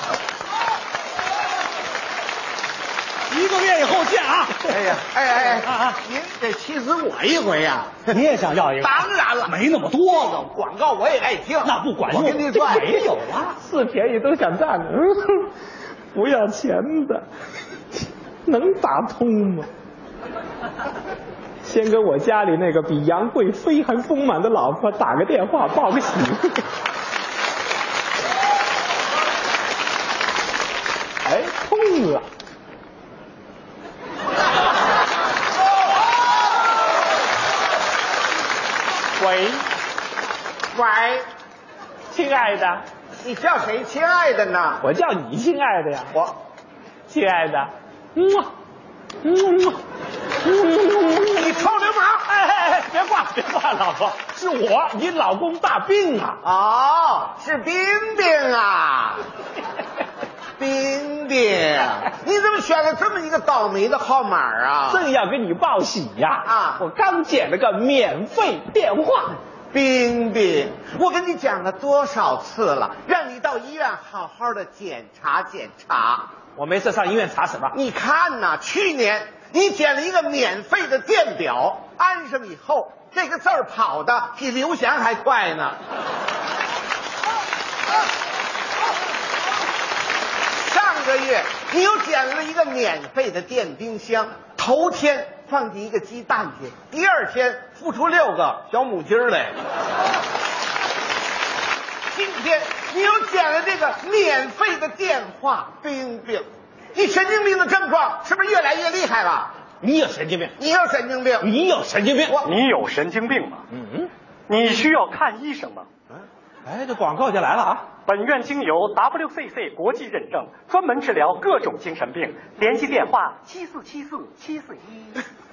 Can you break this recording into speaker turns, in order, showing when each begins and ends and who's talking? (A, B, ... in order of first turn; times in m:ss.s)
0:03.3-0:04.7 A
0:04.6-0:08.1 B
0:05.6-0:06.0 A
0:08.1-0:10.4 A
0:08.8-0:13.0 B
0:11.6-0:13.5 A
0:12.4-0:13.0 C
0:13.6-0:15.5 C
0:16.1-0:17.2 C
0:18.4-0:19.7 C
0:21.6-0:26.6 C
0:31.2-0:32.2 C
0:39.2-0:39.6 C
0:40.7-0:41.2 B
0:42.1-0:42.8 C
0:43.2-0:44.8 B
0:44.8-0:46.2 C
0:47.1-0:48.5 C
0:49.2-0:49.8 C
0:50.4-0:51.6 C
0:51.3-0:52.3 B
0:52.3-0:56.4 C
0:56.4-0:59.2 B
1:00.6-1:05.0 B
1:04.9-1:09.4 C
1:06.4-1:06.8 B
1:09.7-1:16.3 B
1:16.5-1:17.7 C
1:17.7-1:25.8 B
1:30.6-1:39.6 B
1:42.1-1:49.5 B
1:49.8-1:50.5 C
1:50.6-1:51.5 B
1:51.4-1:52.4 C
1:52.4-1:53.6 D
1:53.7-1:54.1 C
1:54.5-1:55.9 D
1:56.6-1:57.8 C
1:58.0-2:05.2 D